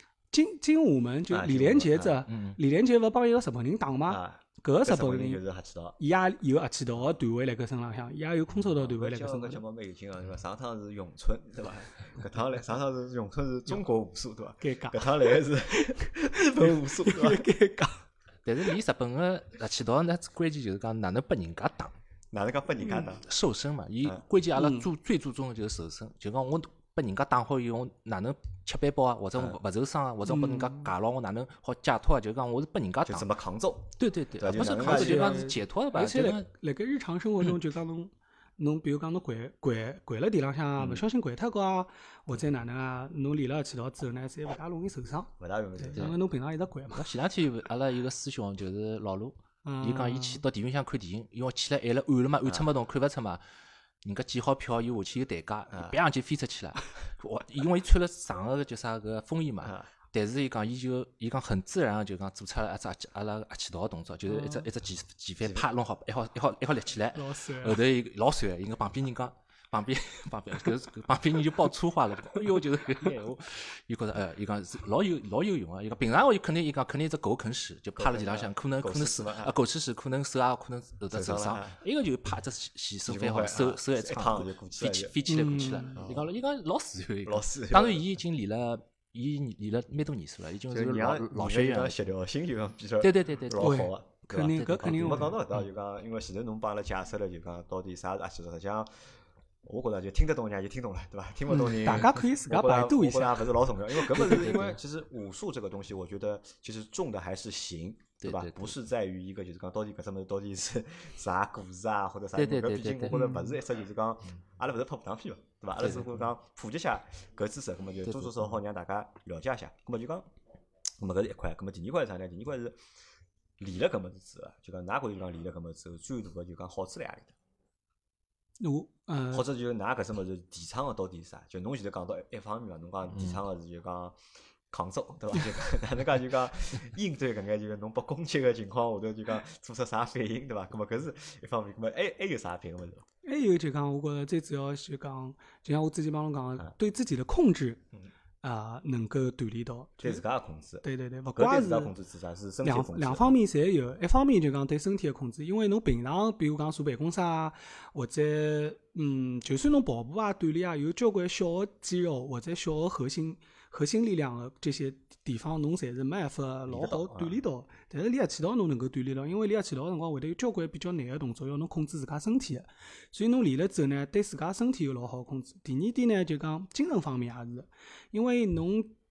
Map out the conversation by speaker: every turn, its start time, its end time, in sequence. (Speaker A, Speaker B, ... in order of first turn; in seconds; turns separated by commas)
Speaker A: 0.3-5.4, Speaker B: 1.3-2.2, Speaker C: 2.3-2.6, Speaker B: 4.1-6.0, Speaker A: 6.0-9.6, Speaker B: 8.8-17.4, Speaker A: 14.6-18.0, Speaker C: 18.4-21.9, Speaker B: 22.3-23.2, Speaker C: 23.2-33.3, Speaker A: 24.6-24.9, Speaker A: 30.2-30.9, Speaker B: 33.0-35.5, Speaker C: 34.0-36.5, Speaker A: 34.8-47.1, Speaker B: 45.4-46.2, Speaker C: 46.9-53.4, Speaker A: 49.6-50.4, Speaker C: 54.0-92.0, Speaker B: 59.6-59.9, Speaker A: 64.3-64.7, Speaker A: 67.1-67.8, Speaker B: 78.0-79.5, Speaker B: 81.1-81.8, Speaker B: 83.0-85.2, Speaker A: 85.3-86.0, Speaker B: 85.9-86.2, Speaker B: 87.2-88.0, Speaker B: 90.7-98.9, Speaker C: 93.0-93.8, Speaker A: 93.6-95.3, Speaker C: 94.3-95.2, Speaker B: 99.6-120.3, Speaker A: 101.5-104.5, Speaker C: 104.2-104.8, Speaker C: 108.2-108.8, Speaker C: 112.3-113.2, Speaker A: 113.1-113.5, Speaker C: 115.8-116.2, Speaker C: 118.0-118.4, Speaker B: 121.0-122.8, Speaker B: 123.6-127.3, Speaker A: 128.6-129.4, Speaker B: 129.3-134.2, Speaker B: 134.7-143.0, Speaker A: 143.2-147.8, Speaker A: 148.4-150.2, Speaker B: 150.0-153.3, Speaker A: 150.8-151.9, Speaker A: 152.6-178.9, Speaker B: 166.7-167.4